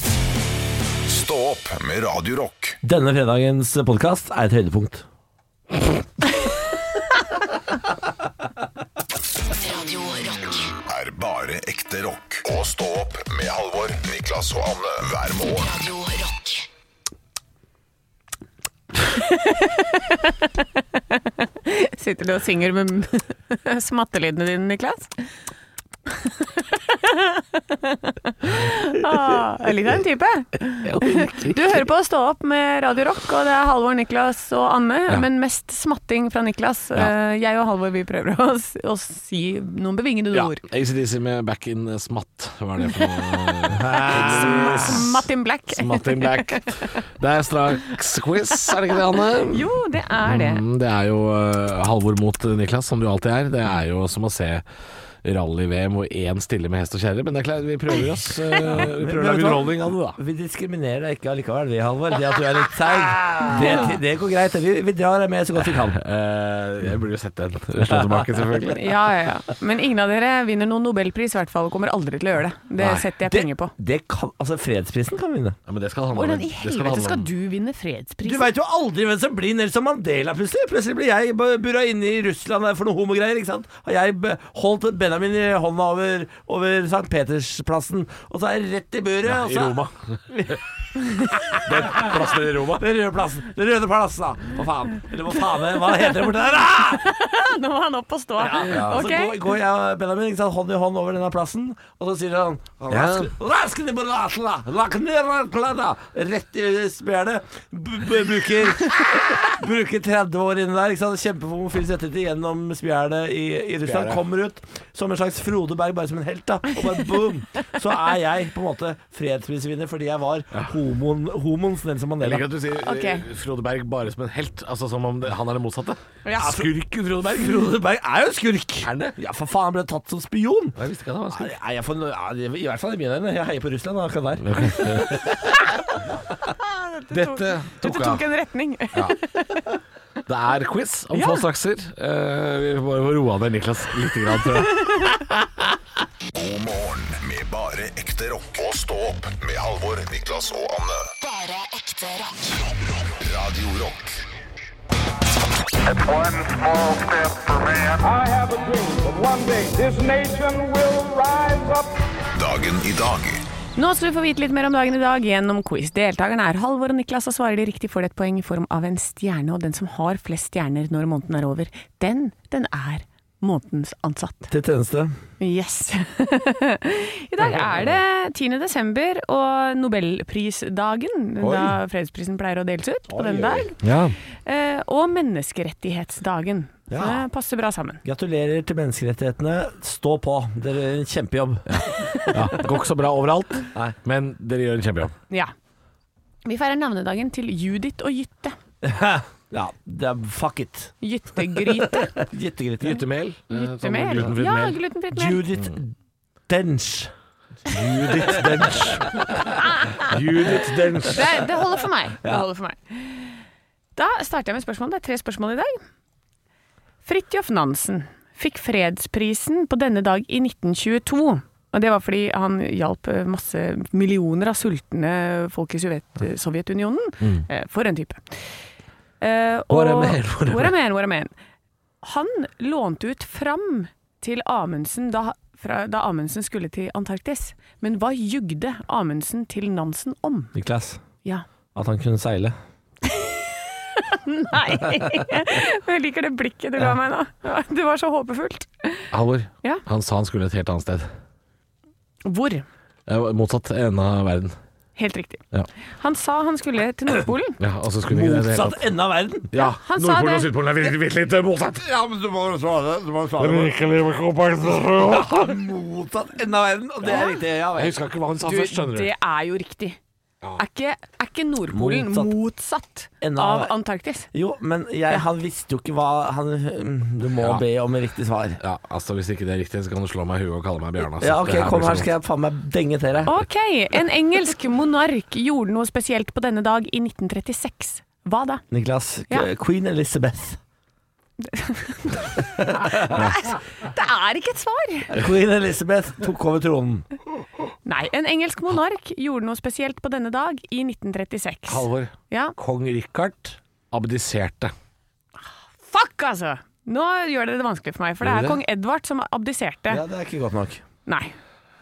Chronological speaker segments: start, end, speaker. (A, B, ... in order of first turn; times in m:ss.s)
0:01.1-0:02.8 A
0:02.8-0:05.0 B
0:09.6-0:10.7 C
0:10.9-0:15.7 A
0:15.6-0:16.7 C
0:19.0-0:25.3 D
0:26.1-0:40.6 D
0:30.8-0:31.8 E
0:40.3-0:54.6 E
0:42.8-0:46.9 D
0:43.7-0:45.0 B
0:48.7-0:50.6 D
0:55.2-1:00.2 E
0:58.6-1:06.0 B
1:03.3-1:03.7 E
1:05.9-1:08.8 E
1:07.8-1:08.6 B
1:08.7-1:13.7 D
1:12.8-1:13.0 E
1:13.2-1:15.6 B
1:15.7-1:17.3 E
1:16.1-1:18.5 D
1:18.2-1:37.0 B
1:29.2-1:30.2 E
1:31.6-1:32.8 E
1:35.7-1:39.4 D
1:38.4-2:02.5 B
1:38.5-1:39.0 E
1:42.9-1:43.3 E
1:53.8-1:54.2 E
2:02.2-2:07.6 E
2:02.8-2:03.2 D
2:06.2-2:06.6 D
2:06.4-2:10.8 B
2:08.8-2:09.2 E
2:10.8-2:11.5 E
2:11.3-2:15.6 B
2:14.4-2:15.3 E
2:16.6-2:19.6 D
2:17.1-2:18.2 E
2:20.2-2:24.9 E
2:21.1-2:21.4 D
2:24.8-2:25.2 D
2:26.3-2:31.1 A
2:31.2-2:32.6 C
2:33.1-2:34.2 A
2:35.8-2:41.9 F
2:42.3-2:43.4 A
2:43.8-2:54.5 D
2:54.5-2:55.1 B
2:55.4-3:03.8 D
2:57.4-2:57.9 E
3:01.4-3:01.7 B
3:03.1-3:03.7 B
3:03.8-3:04.2 E
3:04.3-3:08.0 D
3:06.9-3:07.2 B
3:08.0-3:12.6 B
3:11.7-3:15.1 E
3:12.0-3:12.5 D
3:16.4-3:18.6 D
3:18.8-3:23.0 B
3:21.0-3:22.2 D
3:22.8-3:24.8 E
3:23.5-3:25.4 D
3:25.1-3:25.9 B
3:26.5-3:27.1 B
3:27.6-3:31.5 B
3:27.7-3:29.1 E
3:29.6-3:29.9 D
3:30.0-3:31.2 E
3:31.0-3:33.4 D
3:34.0-3:35.8 D
3:37.0-3:48.5 D
3:47.2-3:47.4 E
3:49.2-3:51.3 D
3:49.7-3:50.7 E
3:52.0-4:00.5 D
4:00.5-4:01.0 B
4:01.7-4:02.6 B
4:03.0-4:09.1 D
4:05.0-4:05.3 B
4:09.1-4:11.1 E
4:12.2-4:12.6 D
4:13.1-4:14.6 E
4:15.0-4:15.4 D
4:16.0-4:17.6 D
4:17.6-4:18.9 E
4:18.0-4:19.5 B
4:19.5-4:21.8 E
4:19.5-4:20.5 D
4:21.8-4:23.8 B
4:23.4-4:25.4 E
4:24.7-4:28.0 B
4:27.0-4:27.4 D
4:27.7-4:29.1 E
4:28.4-4:30.0 D
4:30.6-4:34.3 D
4:31.7-4:32.3 B
4:33.2-4:33.7 B
4:34.3-4:38.6 B
4:38.6-4:42.1 E
4:41.2-4:43.3 B
4:43.3-4:48.6 D
4:48.7-4:50.6 B
4:51.4-4:55.1 D
4:52.4-4:53.2 B
4:55.1-4:57.1 B
4:57.8-5:02.6 D
5:01.7-5:04.7 E
5:05.8-5:10.0 D
5:08.2-5:08.6 E
5:09.9-5:10.8 B
5:11.0-5:11.3 D